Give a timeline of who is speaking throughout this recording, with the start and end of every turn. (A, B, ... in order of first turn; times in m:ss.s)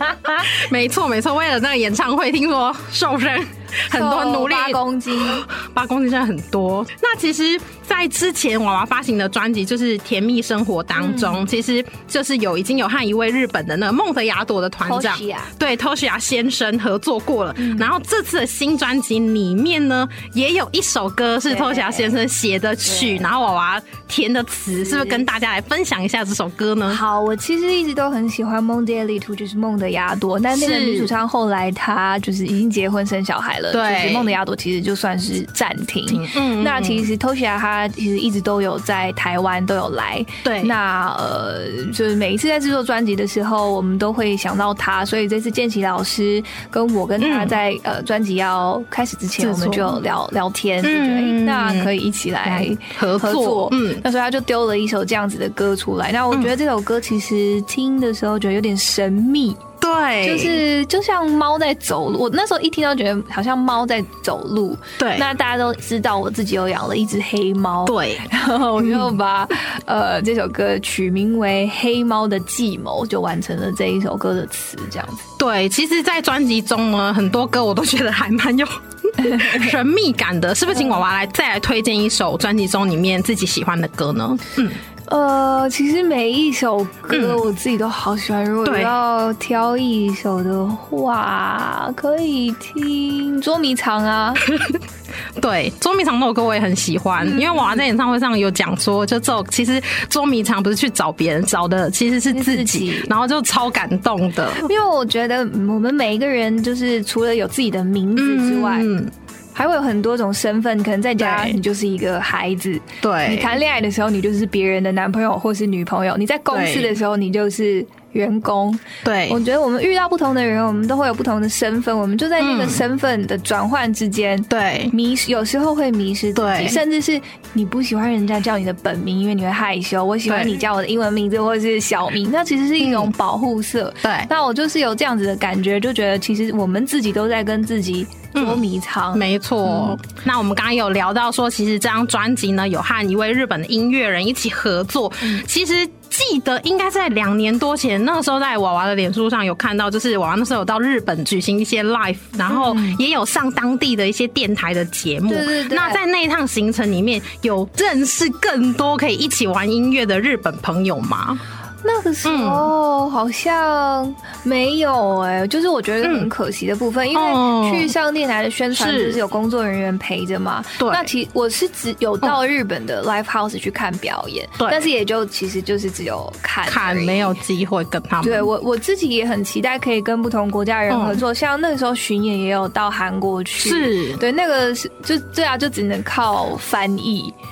0:00.3-0:27.0 A
0:03.9-0:05.4 B
0:11.0-0:11.5 B
0:14.8-0:15.5 B
0:17.6-0:17.9 B
0:21.5-0:22.2 B
0:22.8-0:23.3 B
0:24.8-0:25.3 B
0:26.9-0:59.6 B
0:30.5-0:31.2 A
0:33.7-0:34.4 A
0:36.1-0:37.1 A
0:40.4-0:40.8 A
0:47.2-0:47.6 A
0:49.4-0:50.1 A
0:50.8-0:54.0 A
0:59.8-1:00.6 A
1:00.2-1:15.3 B
1:05.0-1:05.3 A
1:07.9-1:08.3 A
1:08.8-1:09.1 A
1:15.4-1:24.8 A
1:19.2-1:19.7 B
1:25.1-1:34.4 B
1:27.1-1:27.4 A
1:28.6-1:29.0 A
1:34.4-1:34.8 A
1:35.4-1:44.7 A
1:37.2-1:37.8 B
1:42.3-1:43.1 B
1:44.6-1:48.9 B
1:48.2-1:49.1 A
1:49.6-2:20.0 B
1:51.2-1:51.6 A
1:53.0-1:53.6 A
1:56.5-1:56.9 A
1:59.0-1:59.4 A
2:02.4-2:02.8 A
2:04.5-2:04.9 A
2:06.4-2:06.8 A
2:10.3-2:10.6 A
2:12.8-2:13.1 A
2:14.0-2:14.3 A
2:18.3-2:41.4 A
2:25.2-2:25.5 B
2:32.5-2:33.0 B
2:35.3-2:36.0 B
2:41.8-2:57.4 B
2:42.2-2:42.7 A
2:46.0-2:46.3 A
2:47.1-2:47.9 A
2:48.7-2:49.2 A
2:50.8-2:51.1 A
2:54.6-2:54.9 A
2:56.6-2:58.5 A
2:58.2-3:07.4 B
3:00.9-3:01.2 A
3:03.6-3:04.2 A